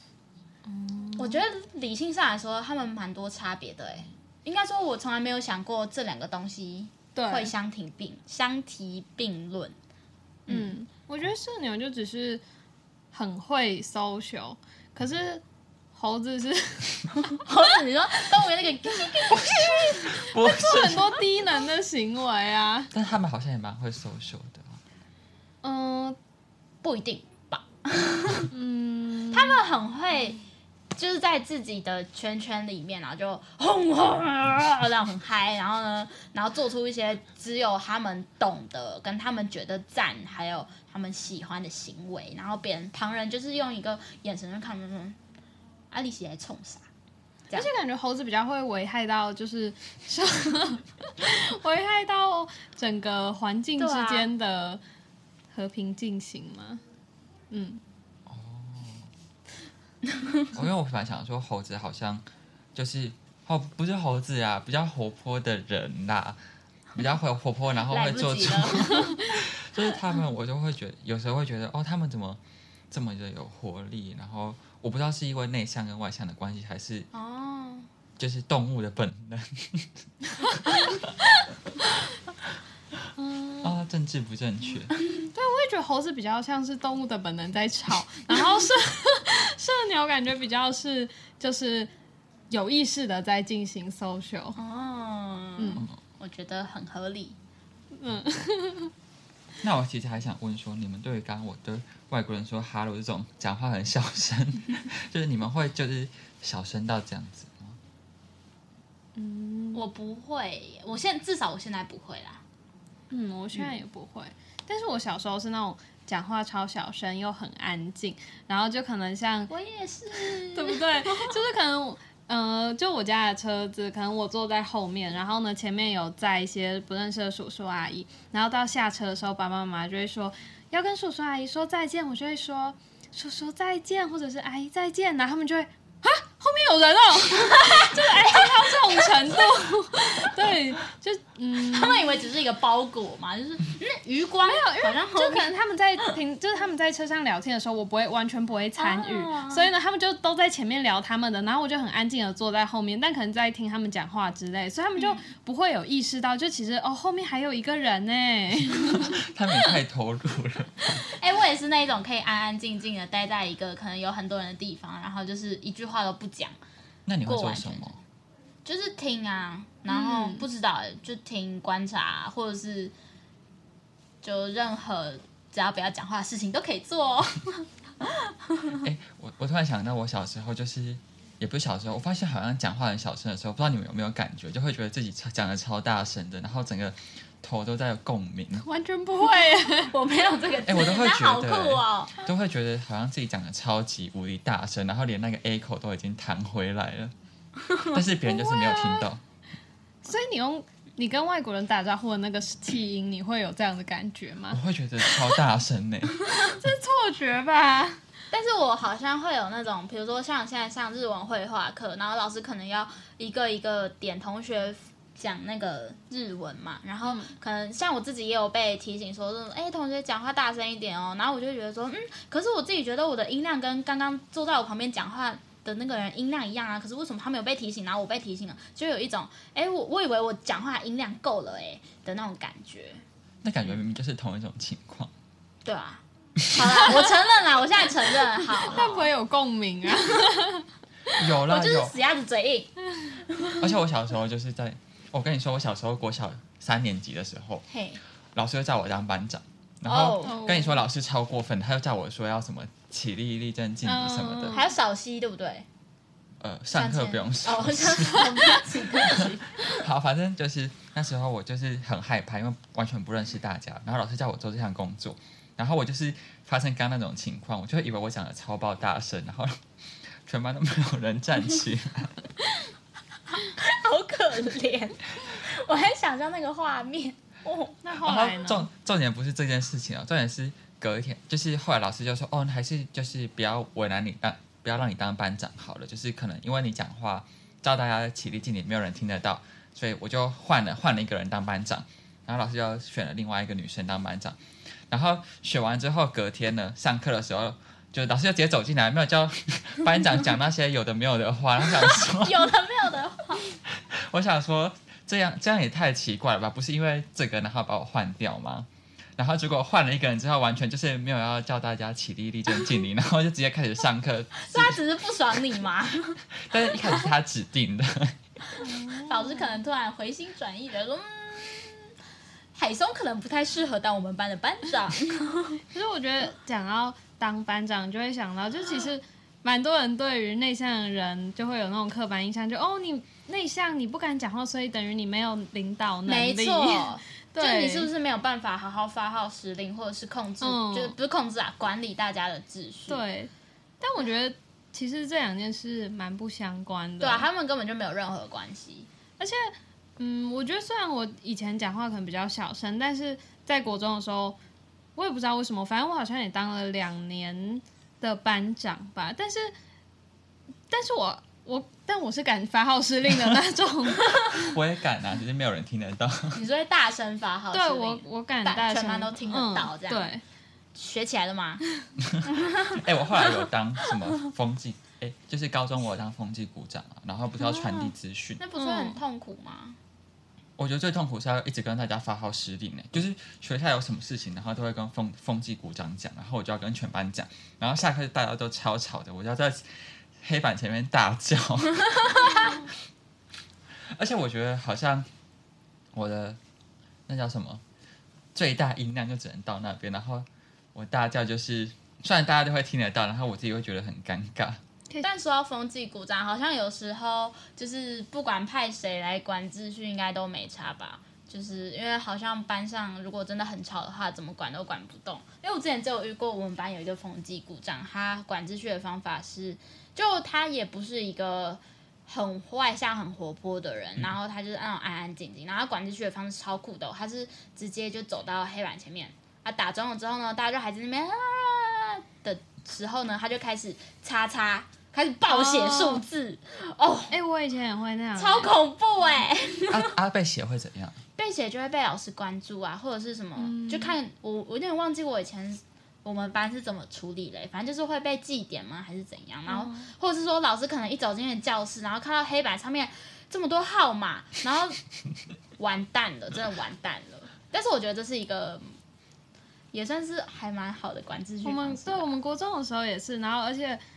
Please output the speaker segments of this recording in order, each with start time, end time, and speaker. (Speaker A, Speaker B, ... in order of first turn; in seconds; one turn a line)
Speaker A: 0.7-1.4
Speaker B: 1.2-9.8
Speaker A: 7.2-7.5
Speaker B: 10.5-10.8
Speaker A: 10.5-12.4
Speaker A: 13.1-15.4
Speaker A: 15.9-17.4
Speaker B: 17.4-20.1
Speaker A: 19.0-22.9
Speaker C: 20.1-21.2
Speaker C: 22.9-24.8
Speaker A: 25.6-26.2
Speaker B: 26.8-28.5
Speaker A: 28.5-29.6
Speaker B: 29.3-30.4
Speaker B: 30.9-45.2
Speaker B: 45.9-46.9
Speaker A: 47.5-54.8
Speaker B: 53.8-54.3
Speaker A: 55.5-56.8
Speaker A: 57.5-57.8
Speaker C: 58.3-59.1
Speaker B: 60.1-60.5
Speaker C: 60.5-62.2
Speaker C: 62.8-66.4
Speaker C: 67.0-72.4
Speaker B: 67.8-69.3
Speaker C: 72.9-77.1
Speaker B: 77.1-77.9
Speaker C: 78.2-81.1
Speaker A: 83.2-83.8
Speaker C: 83.6-84.9
Speaker A: 85.3-91.9
Speaker A: 92.5-94.6
Speaker B: 94.6-97.4
Speaker A: 95.6-95.9
Speaker A: 98.0-98.9
Speaker C: 99.6-107.8
Speaker A: 109.2-109.8
Speaker B: 109.7-112.4
Speaker A: 113.1-119.5
Speaker B: 119.5-121.3
Speaker A: 120.2-142.1
Speaker B: 137.4-140.2
Speaker B: 141.6-146.1
Speaker A: 144.5-159.2
Speaker B: 148.8-149.7
Speaker B: 155.0-155.2
Speaker C: 158.7-161.1
Speaker B: 161.1-166.6
Speaker C: 167.1-168.0
Speaker B: 167.2-167.9
Speaker B: 168.7-172.9
Speaker A: 169.9-170.4
Speaker B: 174.2-178.8
Speaker C: 178.8-188.7
Speaker A: 188.6-189.9
Speaker B: 189.8-192.1
Speaker C: 190.7-197.1
Speaker C: 197.9-199.2
Speaker A: 198.2-199.1
Speaker A: 200.1-205.3
Speaker C: 204.5-206.2
Speaker A: 206.2-208.0
Speaker B: 208.3-233.0
Speaker A: 217.0-217.3
Speaker C: 233.4-235.1
Speaker B: 235.7-239.1
Speaker A: 238.6-240.7
Speaker C: 241.2-241.9
Speaker B: 241.4-242.7
Speaker B: 243.3-243.6
Speaker C: 243.6-247.7
Speaker B: 247.7-248.0
Speaker C: 248.3-254.6
Speaker B: 249.9-250.5
Speaker A: 250.2-250.8
Speaker A: 253.8-254.7
Speaker B: 254.5-255.7
Speaker C: 256.4-258.5
Speaker B: 256.7-259.9
Speaker C: 259.0-269.6
Speaker C: 270.2-272.2
Speaker B: 273.3-277.8
Speaker A: 277.8-278.7
Speaker C: 278.0-294.4
Speaker C: 294.9-302.5
Speaker B: 301.9-303.6
Speaker C: 303.7-314.8
Speaker B: 314.4-317.1
Speaker C: 316.4-318.2
Speaker B: 318.5-321.9
Speaker A: 318.6-319.6
Speaker B: 322.6-325.6
Speaker A: 325.7-337.9
Speaker B: 336.1-343.0
Speaker A: 340.4-340.9
Speaker A: 342.9-347.3
Speaker B: 347.0-348.9
Speaker A: 349.2-354.4
Speaker A: 355.0-359.5
Speaker A: 360.7-364.5
Speaker C: 364.3-366.4
Speaker B: 366.3-370.1
Speaker A: 367.5-370.2
Speaker B: 370.8-371.6
Speaker C: 372.0-378.4
Speaker B: 377.4-379.8
Speaker A: 378.6-379.0
Speaker C: 380.6-392.6
Speaker C: 393.9-395.1
Speaker C: 395.9-396.4
Speaker C: 397.1-397.6
Speaker C: 398.3-404.6
Speaker B: 405.0-437.1
Speaker A: 435.3-436.0
Speaker A: 437.1-438.5
Speaker B: 438.2-439.9
Speaker C: 439.7-441.0
Speaker B: 441.2-454.8
Speaker A: 443.4-444.0
Speaker A: 449.5-449.9
Speaker B: 455.6-458.7
Speaker B: 459.7-462.1
Speaker A: 461.4-463.8